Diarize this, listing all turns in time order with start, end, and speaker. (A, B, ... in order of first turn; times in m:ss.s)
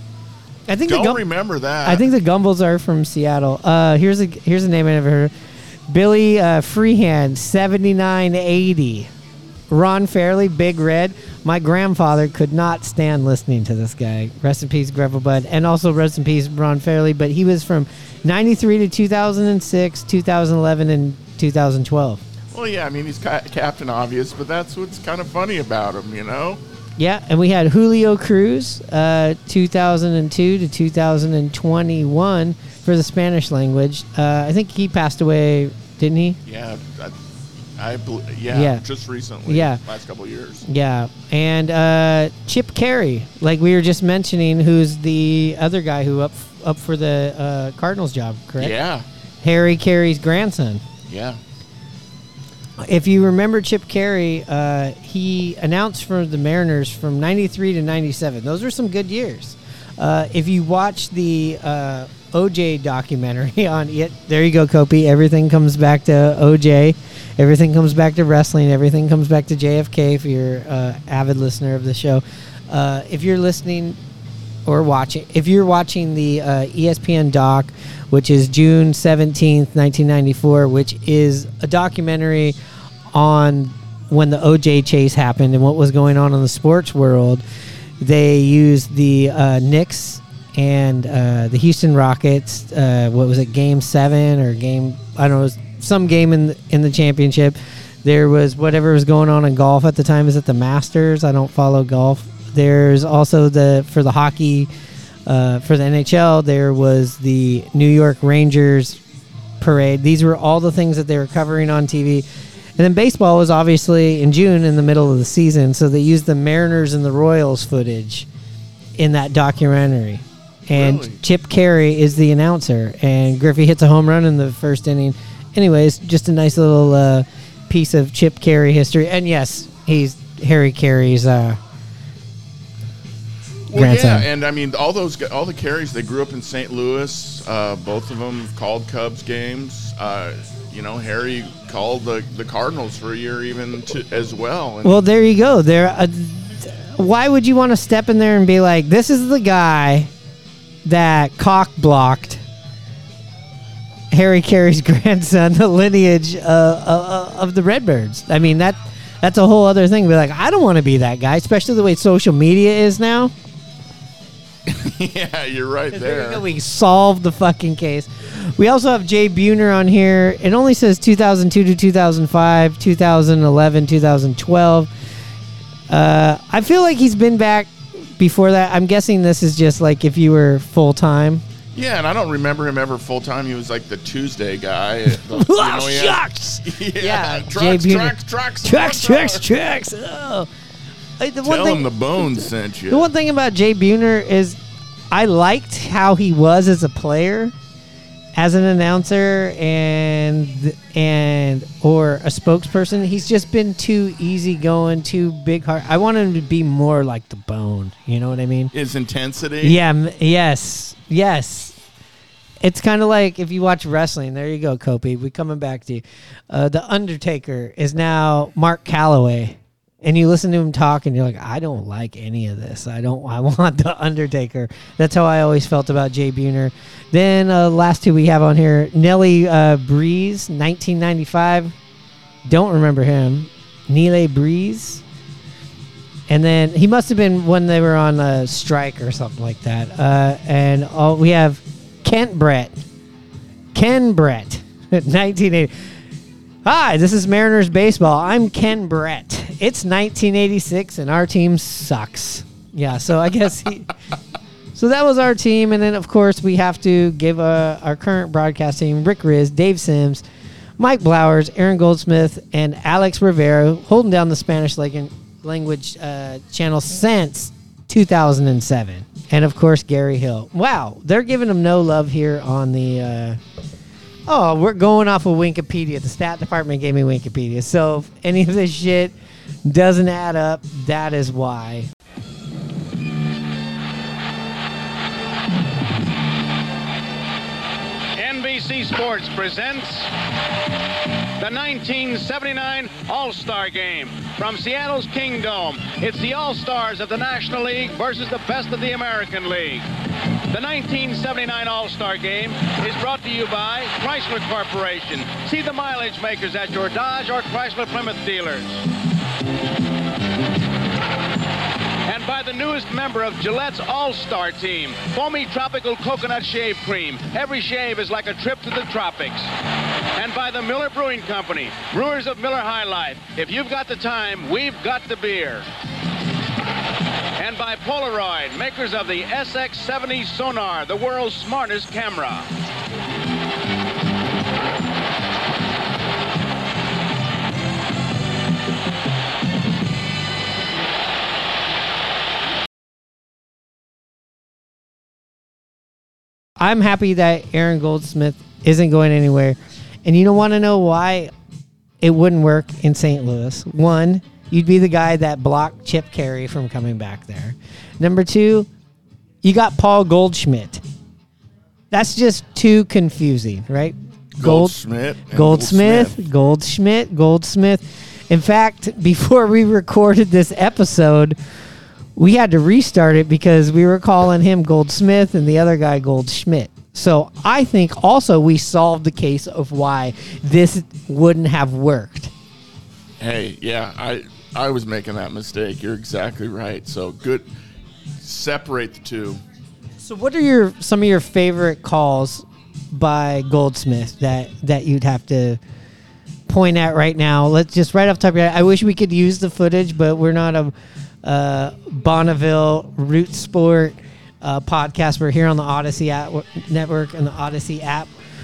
0:00.7-0:01.2 A
0:00.9-0:02.0 B
0:01.9-0:05.3 A
0:05.9-0:09.1 A
0:09.7-0:22.2 A
0:22.5-0:26.6 B
0:27.0-0:36.4 A
0:36.5-0:37.2 B
0:37.8-0:40.6 B
0:38.5-0:38.8 A
0:39.5-0:39.8 A
0:40.7-0:48.7 A
0:48.6-0:49.0 B
0:49.4-0:50.8 A
0:51.1-0:51.4 B
0:52.8-1:14.0 A
1:14.7-1:22.6 A
1:23.1-1:27.4 A
1:28.0-1:44.7 A
1:45.3-1:49.0 A
1:49.6-1:52.2 A
1:52.8-1:58.3 A
1:59.0-2:11.6 A
2:00.7-2:01.2 B
2:13.7-2:25.1 B
2:13.8-2:14.3 A
2:24.8-2:30.1 A
2:30.9-2:32.4 A
2:34.1-2:43.3 A
2:44.7-2:46.4 B
2:45.9-2:54.9 A
2:55.9-3:01.4 A
3:01.7-3:09.5 B
3:05.1-3:10.5 A
3:11.2-3:14.6 A
3:11.4-3:13.1 B
3:15.1-3:17.5 A
3:18.4-3:28.7 A
3:28.7-3:29.8 B
3:29.6-3:31.8 A
3:32.6-3:51.8 A
3:52.5-3:55.0 A
3:56.3-4:02.8 A
4:03.7-4:05.7 A
4:06.6-4:13.9 A
4:14.8-4:20.2 A
4:20.8-4:33.4 A
4:34.3-4:39.2 A
4:39.7-4:41.9 A
4:48.2-4:50.1 C
4:51.4-4:59.8 C
5:00.5-5:08.7 C
5:12.1-5:19.5 C
5:20.2-5:25.7 C
5:27.4-5:32.5 C
5:46.6-5:51.3 A
5:52.0-5:58.7 A
5:59.4-6:00.8 A
6:01.9-6:04.8 A
6:04.4-6:06.2 B
6:05.3-6:11.4 A
6:12.2-6:22.3 A
6:23.2-6:27.5 B
6:28.2-6:29.4 B
6:30.0-6:35.6 A
6:36.5-6:40.7 A
6:41.2-6:48.1 A